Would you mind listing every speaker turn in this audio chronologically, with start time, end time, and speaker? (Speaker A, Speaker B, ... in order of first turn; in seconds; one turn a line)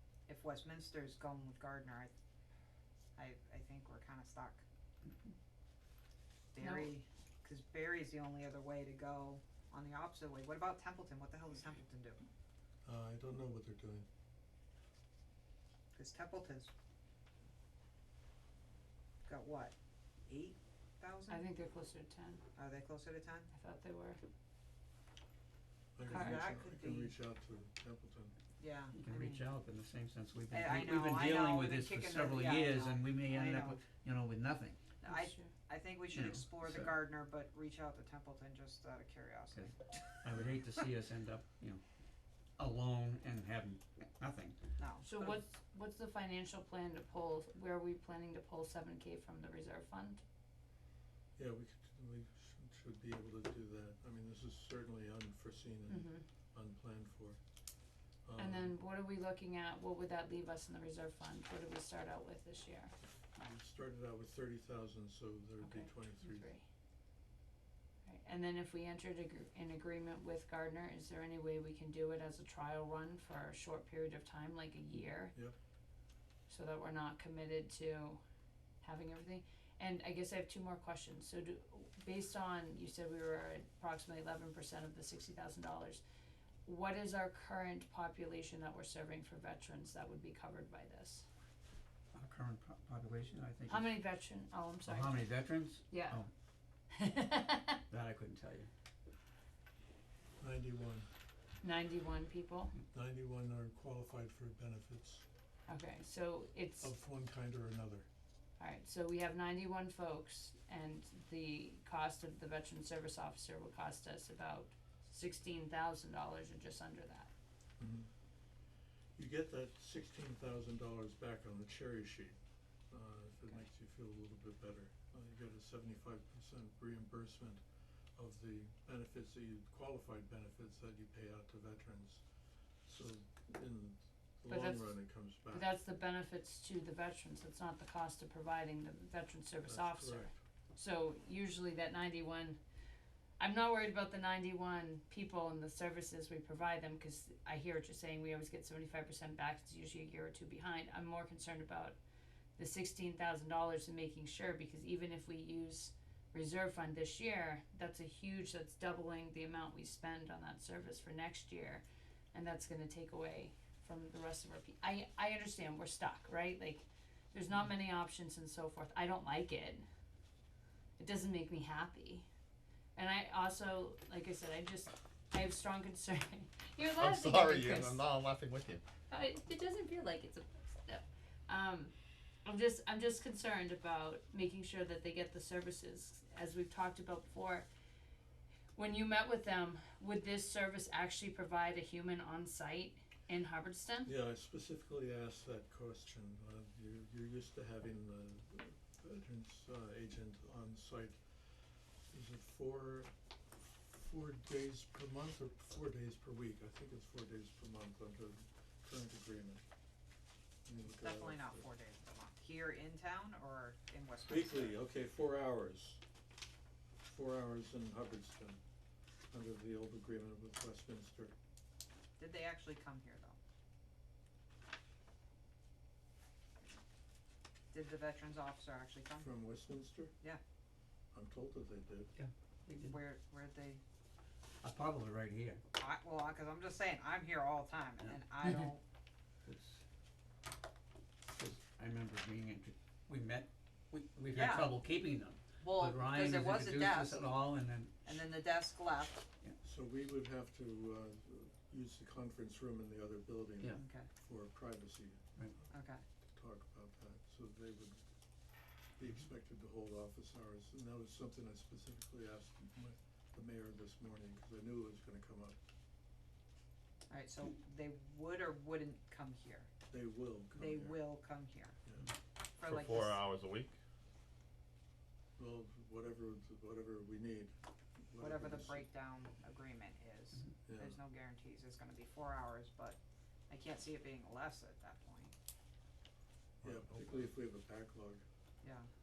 Speaker A: 0.3-2.1
Speaker A: 3.2-4.6
Speaker A: 6.5-12.2
Speaker B: 6.6-6.9
Speaker C: 12.8-14.1
Speaker A: 15.9-16.7
Speaker A: 19.2-19.8
Speaker A: 20.3-21.4
Speaker B: 21.3-22.4
Speaker A: 22.6-23.5
Speaker B: 23.5-24.2
Speaker C: 26.0-28.4
Speaker A: 26.1-27.1
Speaker B: 26.1-26.5
Speaker A: 28.6-29.4
Speaker D: 28.9-35.0
Speaker A: 30.5-33.8
Speaker A: 35.0-40.2
Speaker B: 35.0-35.5
Speaker D: 36.1-37.0
Speaker D: 39.5-41.8
Speaker D: 42.6-44.6
Speaker A: 44.8-45.4
Speaker B: 45.0-50.2
Speaker C: 51.4-57.4
Speaker B: 55.9-56.2
Speaker C: 58.3-58.7
Speaker B: 58.4-62.9
Speaker C: 63.4-66.5
Speaker B: 65.6-66.7
Speaker B: 68.1-75.4
Speaker B: 76.5-78.2
Speaker B: 78.8-86.0
Speaker B: 86.7-91.3
Speaker D: 92.1-94.0
Speaker B: 93.7-96.2
Speaker D: 94.9-96.3
Speaker B: 96.9-97.8
Speaker D: 97.9-98.7
Speaker C: 100.4-101.1
Speaker B: 101.6-102.7
Speaker C: 102.9-105.2
Speaker B: 105.7-107.0
Speaker C: 106.8-108.1
Speaker B: 108.6-117.3
Speaker C: 117.8-118.1
Speaker C: 119.2-122.4
Speaker C: 122.9-127.6
Speaker C: 128.2-132.2
Speaker C: 132.9-135.7
Speaker B: 134.5-142.6
Speaker C: 139.7-140.3
Speaker B: 143.4-152.0
Speaker B: 152.6-169.9
Speaker B: 171.0-172.3
Speaker B: 173.0-178.0
Speaker E: 177.0-178.7
Speaker B: 179.1-181.9
Speaker B: 182.4-187.7
Speaker B: 188.8-194.1
Speaker C: 194.1-201.2
Speaker C: 202.1-209.6
Speaker C: 210.7-211.6
Speaker A: 210.9-214.8
Speaker C: 214.3-216.0
Speaker C: 217.0-218.6
Speaker C: 219.3-221.3
Speaker A: 222.2-223.4
Speaker A: 227.7-229.3
Speaker C: 229.2-230.1
Speaker C: 231.1-232.1
Speaker D: 232.2-233.0
Speaker A: 232.8-233.8
Speaker D: 234.6-235.6
Speaker A: 235.8-238.8
Speaker D: 239.4-239.8
Speaker D: 241.2-248.2
Speaker A: 244.3-244.8
Speaker A: 245.6-247.3
Speaker A: 248.1-249.2
Speaker C: 249.6-255.2
Speaker A: 253.8-254.1
Speaker A: 255.7-256.0
Speaker C: 256.3-258.0
Speaker C: 259.0-265.6
Speaker A: 267.1-269.7
Speaker C: 269.9-271.0
Speaker A: 270.6-271.8
Speaker A: 272.6-273.2
Speaker E: 272.7-273.7
Speaker C: 275.4-277.5
Speaker C: 278.1-278.8
Speaker A: 278.2-285.3
Speaker C: 280.7-281.0
Speaker C: 286.6-288.2
Speaker A: 288.6-288.9